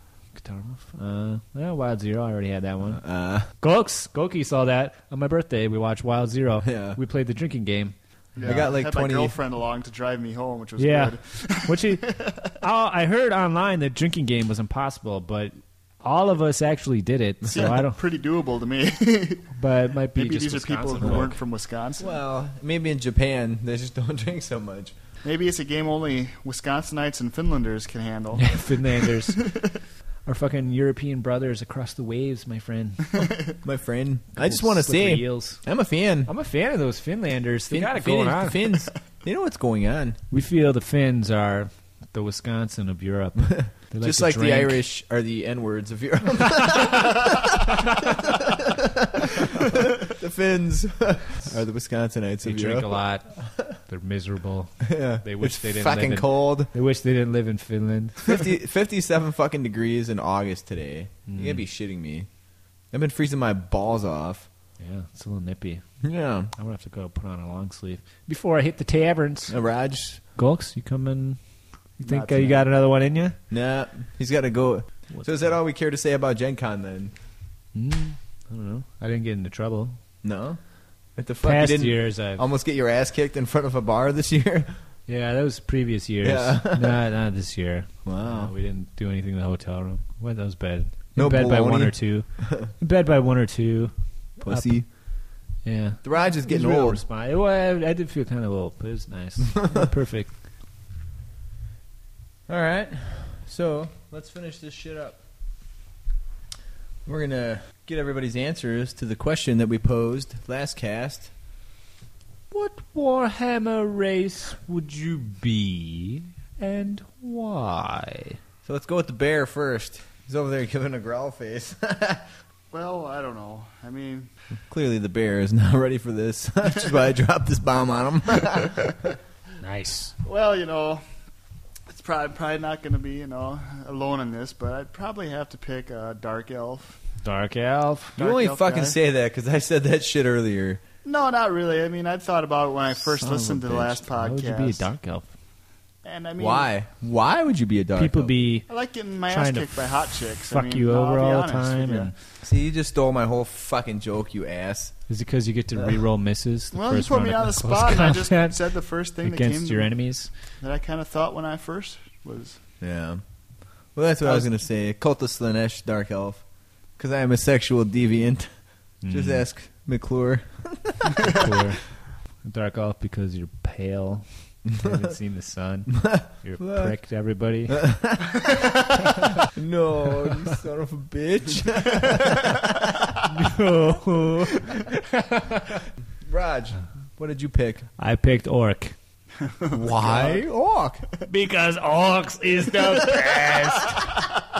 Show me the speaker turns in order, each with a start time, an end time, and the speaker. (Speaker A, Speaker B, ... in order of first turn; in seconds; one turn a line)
Speaker A: 0.3-8.6
Speaker B: 2.9-3.5
Speaker B: 6.6-7.0
Speaker C: 8.3-12.3
Speaker B: 8.4-9.4
Speaker A: 10.8-18.0
Speaker C: 17.5-19.5
Speaker A: 19.5-21.4
Speaker C: 20.1-22.2
Speaker B: 22.0-24.9
Speaker C: 25.2-29.6
Speaker A: 28.4-29.5
Speaker A: 30.2-33.4
Speaker B: 33.6-36.3
Speaker A: 34.3-35.6
Speaker A: 36.2-38.7
Speaker B: 37.7-40.2
Speaker A: 40.3-44.8
Speaker B: 43.5-53.7
Speaker A: 52.4-58.4
Speaker B: 54.8-56.7
Speaker B: 58.2-62.3
Speaker A: 61.3-61.6
Speaker B: 62.9-64.5
Speaker A: 64.8-65.9
Speaker B: 66.0-66.5
Speaker A: 66.5-69.6
Speaker B: 69.5-70.2
Speaker A: 70.3-71.4
Speaker A: 72.0-73.4
Speaker C: 72.0-72.7
Speaker B: 73.5-77.1
Speaker A: 77.7-80.0
Speaker B: 80.2-80.6
Speaker B: 81.1-84.7
Speaker A: 81.4-82.4
Speaker A: 85.1-95.1
Speaker B: 86.2-87.0
Speaker B: 88.0-88.5
Speaker B: 91.2-92.7
Speaker B: 94.4-94.8
Speaker A: 95.6-100.4
Speaker B: 96.0-97.0
Speaker B: 102.5-105.2
Speaker B: 107.0-111.3
Speaker A: 112.5-118.4
Speaker B: 118.6-122.3
Speaker C: 122.7-124.3
Speaker B: 124.7-129.1
Speaker A: 129.6-130.1
Speaker C: 130.2-131.0
Speaker C: 131.9-137.0
Speaker A: 137.2-138.2
Speaker C: 138.2-138.9
Speaker B: 138.2-140.8
Speaker C: 141.0-144.8
Speaker B: 143.2-143.9
Speaker A: 144.0-145.3
Speaker C: 146.0-146.7
Speaker B: 146.4-148.3
Speaker A: 148.0-148.7
Speaker C: 148.7-152.1
Speaker A: 149.3-152.1
Speaker B: 152.4-155.0
Speaker A: 155.1-158.6
Speaker C: 156.7-160.0
Speaker A: 159.2-160.3
Speaker C: 160.6-162.6
Speaker B: 162.8-163.2
Speaker B: 163.8-166.4
Speaker B: 167.0-171.1
Speaker A: 169.0-169.4
Speaker A: 171.2-177.8
Speaker B: 176.0-177.0
Speaker B: 177.7-178.8
Speaker B: 179.4-183.2
Speaker A: 183.2-185.8
Speaker B: 186.2-187.9
Speaker A: 188.0-188.9
Speaker C: 189.6-190.4
Speaker B: 189.7-191.1
Speaker A: 191.2-194.2